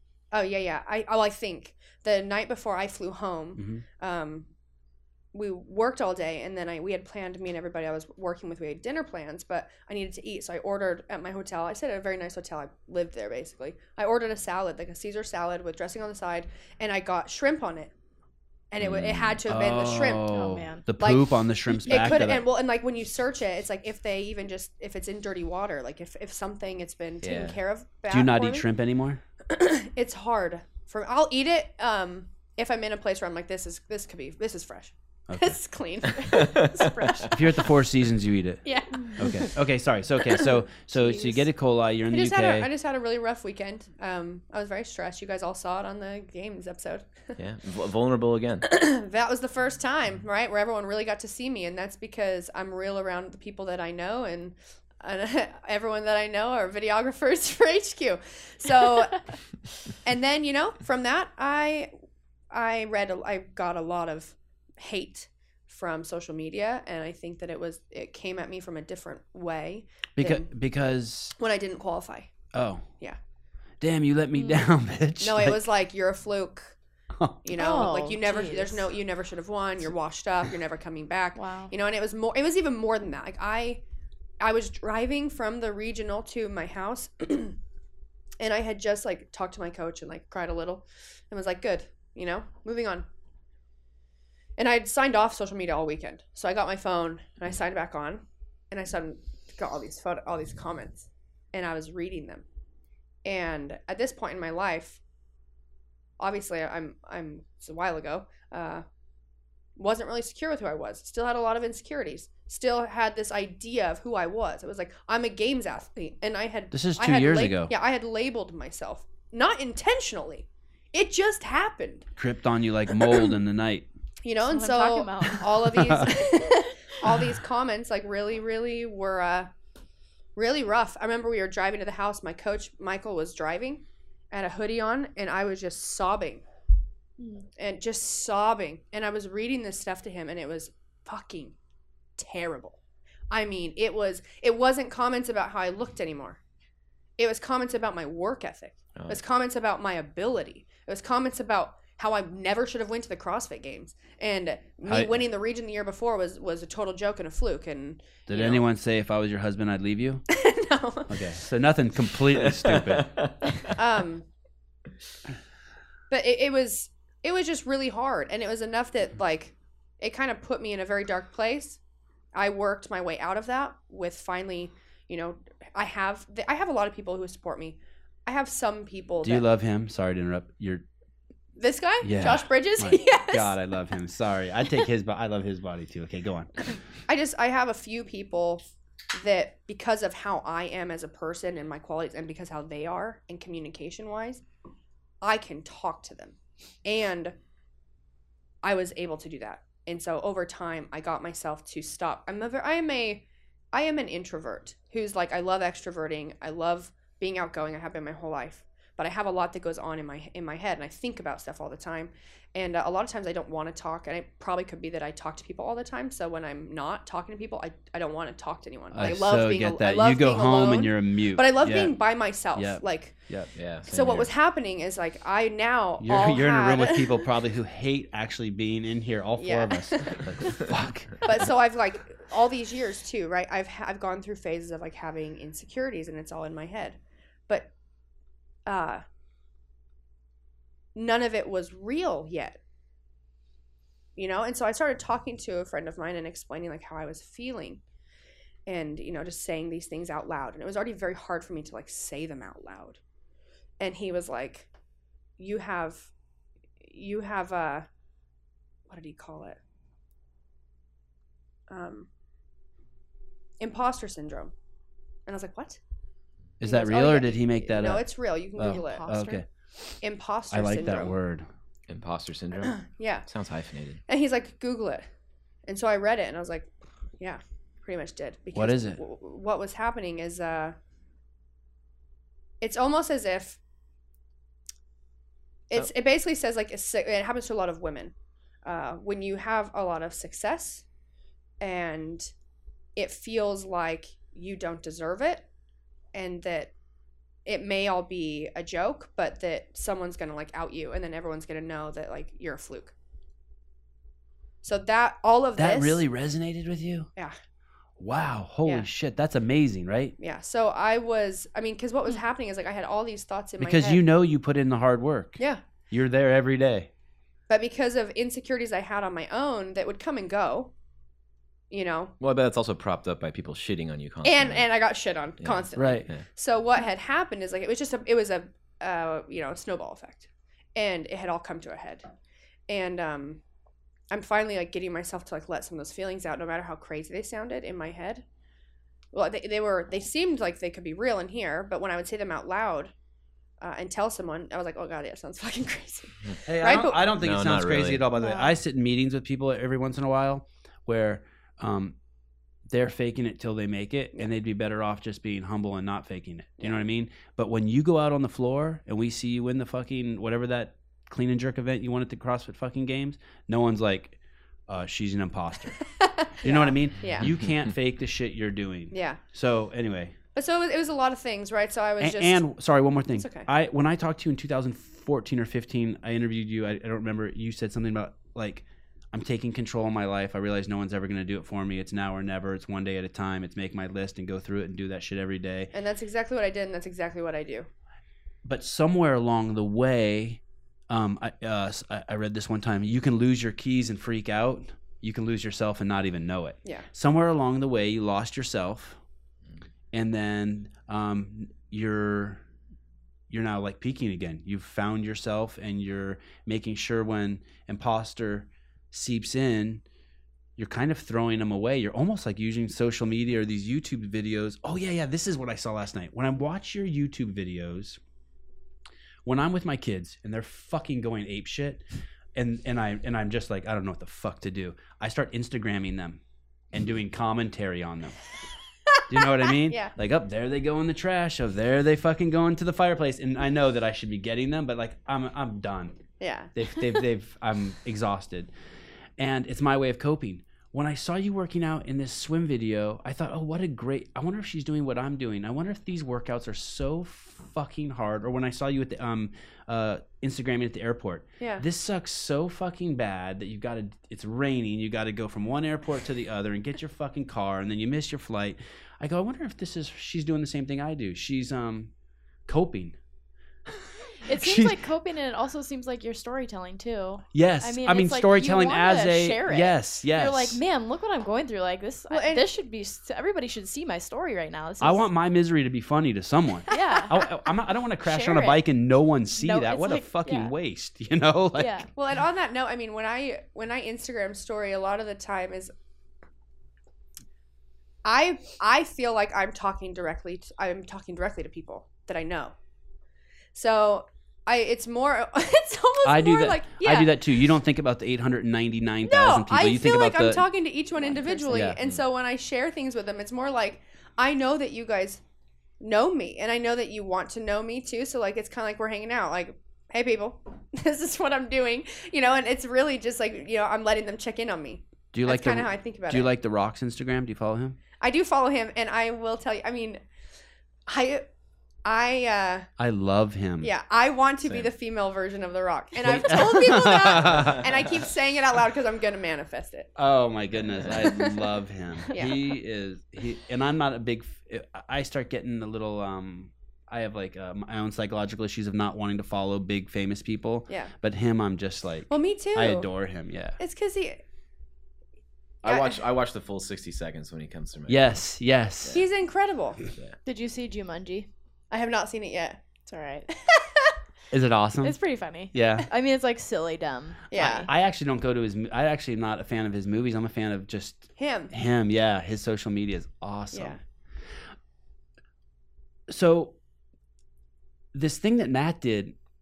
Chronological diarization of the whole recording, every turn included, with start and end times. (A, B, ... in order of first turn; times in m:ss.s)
0:00.3-0:04.5 A
0:03.6-0:03.8 B
0:05.3-0:17.9 A
0:18.7-0:20.4 A
0:18.8-0:19.4 C
0:19.4-0:22.4 B
0:20.2-0:20.8 D
0:21.0-0:28.7 A
0:27.2-0:27.6 C
0:28.1-0:29.2 B
0:29.4-0:36.8 A
0:35.3-0:35.6 B
0:36.1-0:37.3 C
0:36.3-0:37.3 D
0:37.3-0:38.6 B
0:38.6-0:39.5 A
0:39.2-0:42.7 B
0:40.9-0:41.4 D
0:42.1-0:47.4 A
0:47.4-0:48.7 C
0:48.6-0:59.3 A
1:00.0-1:01.9 A
1:02.5-1:10.5 A
1:10.2-1:11.3 B
1:11.4-1:12.3 A
1:12.5-1:12.9 B
1:13.8-1:15.7 B
1:14.4-1:14.6 D
1:15.2-1:16.8 A
1:17.2-1:17.4 B
1:17.4-1:23.8 A
1:17.6-1:18.9 D
1:21.3-1:21.7 D
1:24.4-1:27.6 A
1:28.4-1:33.1 A
1:34.6-1:42.4 A
1:43.2-1:45.0 A
1:46.2-1:48.8 A
1:49.8-2:02.1 A
1:56.7-1:57.7 B
2:02.2-2:03.9 B
2:04.2-2:09.5 A
2:04.4-2:06.7 D
2:05.8-2:06.0 B
2:10.4-2:16.4 A
2:17.2-2:17.4 D
2:17.6-2:21.6 A
2:22.2-2:22.8 A
2:23.3-2:26.4 A
2:27.2-2:38.6 A
2:34.9-2:35.2 B
2:38.3-2:40.2 B
2:40.3-2:41.3 A
2:41.1-2:43.1 B
2:42.4-2:43.7 C
2:43.7-2:44.2 A
2:46.1-2:51.8 A
2:52.3-2:59.4 A
2:59.2-3:00.8 B
3:01.6-3:03.6 A
3:02.0-3:06.7 B
3:07.1-3:08.6 A
3:09.1-3:14.4 A
3:15.2-3:17.4 A
3:18.6-3:43.2 A
3:38.9-3:42.0 B
3:42.5-3:43.5 B
3:43.6-3:44.3 C
3:43.9-3:47.2 A
3:46.0-3:51.5 B
3:49.4-3:50.2 A
3:51.2-3:57.7 A
3:58.6-3:59.0 A
4:00.9-4:02.6 A
4:04.2-4:07.8 A
4:08.7-4:13.0 A
4:13.8-4:14.7 A
4:15.4-4:16.1 A
4:16.8-4:17.9 A
4:18.9-4:19.6 A
4:21.7-4:22.1 A
4:23.6-4:24.5 A
4:25.3-4:25.8 A
4:26.6-4:29.4 B
4:26.6-4:29.1 A
4:28.7-4:29.4 D
4:30.0-4:31.2 A
4:30.5-4:31.4 B
4:31.9-4:34.0 C
4:32.6-4:33.3 A
4:34.1-4:35.0 A
4:35.6-4:40.8 A
4:38.5-4:39.0 B
4:42.6-4:43.6 A
4:45.7-4:48.1 A
4:48.6-4:50.8 A
4:51.6-4:52.3 A
4:53.0-4:55.4 A
4:56.1-4:56.7 A
4:57.4-5:02.9 A
5:04.6-5:06.0 A
5:05.6-5:07.1 B
5:08.0-5:10.1 B
5:10.2-5:14.0 A
5:13.6-5:15.4 B
5:15.4-5:15.6 A
5:15.9-5:16.9 B
5:17.5-5:20.7 A
5:21.7-5:22.1 A
5:22.2-5:24.7 C
5:24.2-5:32.0 A
5:25.4-5:26.2 C
5:25.8-5:26.1 B
5:32.7-5:33.4 A
5:34.1-5:38.2 A
5:39.1-5:42.9 A
5:43.6-5:47.1 A
5:46.5-5:52.0 B
5:47.2-5:48.0 C
5:48.2-5:48.6 D
5:52.7-6:05.8 B
6:06.0-6:07.3 A
6:06.4-6:10.1 B
6:08.9-6:09.2 A
6:10.3-6:12.4 A
6:12.0-6:25.7 B
6:13.2-6:13.5 A
6:25.7-6:27.7 A
6:28.4-6:39.0 B
6:39.9-6:42.4 B
6:43.3-6:49.8 B
6:50.6-6:58.0 B
6:59.2-7:01.8 B
7:02.3-7:06.2 B
7:06.7-7:08.2 B
7:09.1-7:16.0 B
7:09.7-7:09.9 A
7:16.2-7:16.5 A
7:16.6-7:18.5 B
7:19.2-7:41.9 B
7:31.4-7:31.6 A
7:42.5-7:43.0 B
7:44.2-7:55.0 D
7:44.3-7:44.8 B
7:47.3-7:50.6 B
7:52.1-7:52.4 A
7:54.8-8:01.9 B
7:56.7-7:57.3 D
7:58.0-7:58.6 D
7:59.3-8:00.5 D
8:01.6-8:01.9 D
8:01.9-8:05.7 A
8:08.0-8:12.6 A
8:13.5-8:17.2 A
8:16.0-8:20.5 B
8:19.0-8:25.2 A
8:21.4-8:21.8 B
8:25.8-8:36.3 A
8:35.1-8:37.8 B
8:38.0-8:40.0 A
8:40.9-8:41.3 A
8:41.8-8:42.7 A
8:42.8-8:43.7 B
8:43.6-8:49.9 A
8:44.4-8:44.7 C
8:46.0-8:47.6 B
8:50.0-9:03.6 B
8:50.6-8:51.1 C
8:51.0-8:51.5 A
8:52.1-8:52.5 A
9:02.1-9:02.9 A
9:03.6-9:04.2 A
9:05.6-9:08.2 C
9:05.6-9:06.0 A
9:07.9-9:09.0 B
9:08.9-9:09.8 A
9:10.2-9:11.3 D
9:11.7-9:12.6 A
9:12.9-9:13.3 D
9:13.3-9:13.9 A
9:14.3-9:15.0 B
9:14.8-9:17.7 D
9:15.5-9:15.9 B
9:17.3-9:17.7 A
9:17.6-9:23.8 B
9:21.2-9:21.5 A
9:23.5-9:23.8 A
9:26.1-9:26.6 B
9:27.9-9:29.1 B